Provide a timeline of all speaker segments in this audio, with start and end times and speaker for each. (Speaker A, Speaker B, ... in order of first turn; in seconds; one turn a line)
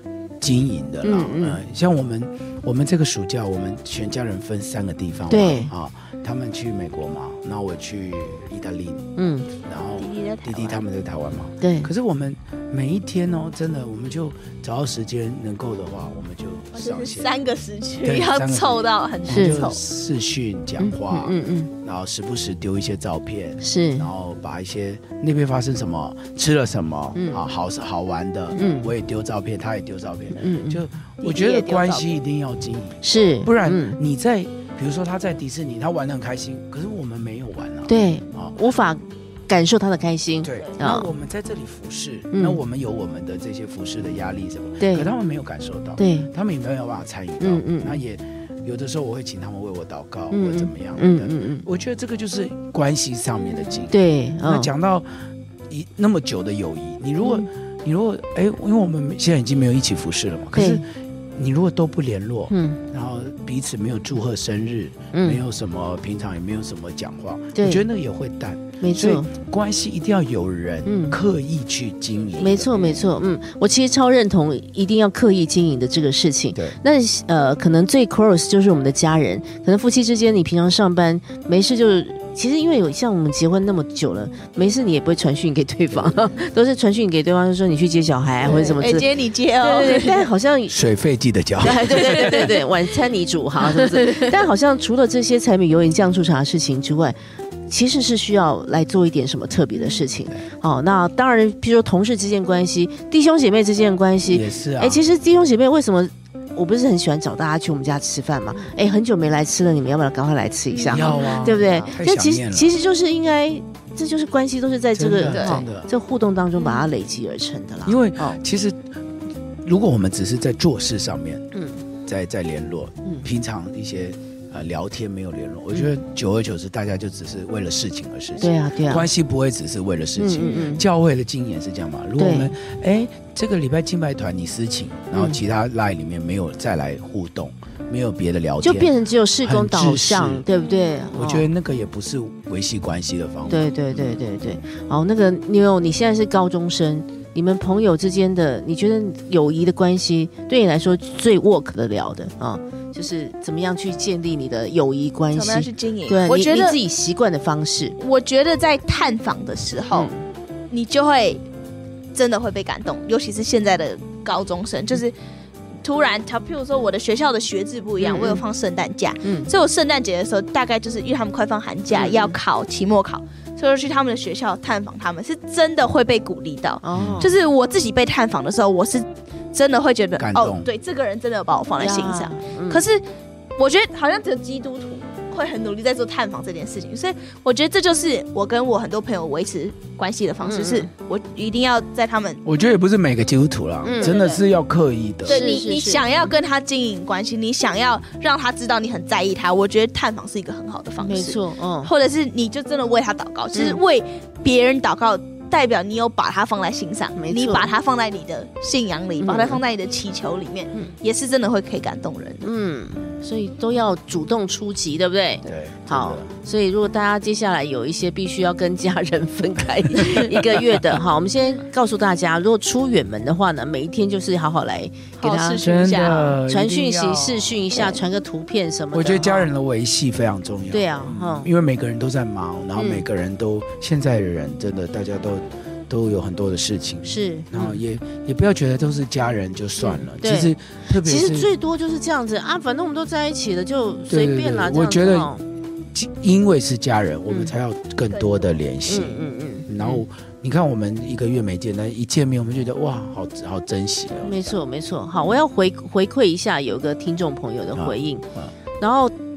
Speaker A: 0.4-17.3
Speaker B: 1.0-1.6
Speaker B: 5.3-5.7
Speaker B: 9.2-9.5
Speaker C: 10.0-10.8
Speaker B: 11.6-11.9
Speaker C: 16.7-19.8
Speaker A: 18.0-38.6
Speaker B: 19.3-19.6
Speaker B: 20.8-21.7
Speaker B: 23.6-24.1
Speaker B: 27.1-27.4
Speaker B: 28.5-28.9
Speaker B: 30.3-30.8
Speaker C: 31.2-32.2
Speaker B: 33.0-34.0
Speaker B: 37.9-41.1
Speaker A: 40.4-73.1
Speaker B: 42.3-42.6
Speaker B: 44.8-45.1
Speaker B: 46.0-46.3
Speaker B: 47.4-48.0
Speaker B: 50.3-51.6
Speaker B: 53.9-54.7
Speaker B: 57.2-57.5
Speaker B: 60.5-60.8
Speaker B: 62.5-62.8
Speaker B: 65.1-65.4
Speaker B: 67.5-67.8
Speaker B: 68.8-69.3
Speaker B: 70.8-71.2
Speaker B: 72.4-90.8
Speaker A: 85.9-86.3
Speaker A: 88.4-88.8
Speaker C: 88.4-90.3
Speaker A: 90.7-92.5
Speaker B: 91.6-97.2
Speaker B: 97.7-118.4
Speaker C: 99.7-100.0
Speaker A: 104.3-105.0
Speaker C: 110.7-111.9
Speaker A: 110.9-112.7
Speaker A: 114.9-115.9
Speaker C: 115.3-115.6
Speaker C: 116.6-116.9
Speaker A: 117.8-119.1
Speaker A: 119.6-121.5
Speaker B: 121.5-121.8
Speaker A: 122.0-140.4
Speaker B: 128.4-129.1
Speaker B: 130.2-130.8
Speaker C: 130.4-130.7
Speaker B: 132.2-132.5
Speaker B: 138.6-141.5
Speaker A: 141.1-144.1
Speaker B: 143.5-157.9
Speaker C: 155.3-156.8
Speaker C: 158.0-160.1
Speaker B: 159.9-160.2
Speaker C: 160.7-161.4
Speaker C: 162.1-165.1
Speaker C: 165.8-183.0
Speaker B: 168.0-168.4
Speaker B: 169.2-169.5
Speaker B: 171.9-172.4
Speaker B: 176.8-177.3
Speaker A: 176.9-177.3
Speaker A: 180.2-180.7
Speaker B: 181.8-182.8
Speaker C: 183.6-192.4
Speaker B: 190.4-190.9
Speaker A: 192.4-195.4
Speaker B: 193.8-194.1
Speaker C: 194.0-194.4
Speaker C: 195.3-212.4
Speaker B: 195.3-196.0
Speaker B: 201.0-201.9
Speaker B: 203.5-203.8
Speaker B: 207.2-207.7
Speaker B: 209.2-209.6
Speaker B: 212.4-225.6
Speaker A: 215.5-216.3
Speaker C: 225.2-226.4
Speaker A: 225.6-227.9
Speaker B: 226.4-229.5
Speaker A: 228.9-241.5
Speaker B: 230.7-231.5
Speaker B: 232.8-233.0
Speaker B: 237.0-237.8
Speaker B: 239.8-245.4
Speaker A: 244.1-245.3
Speaker A: 245.9-254.6
Speaker C: 248.1-248.6
Speaker B: 248.9-250.0
Speaker B: 254.2-258.2
Speaker A: 257.7-258.5
Speaker B: 258.8-259.1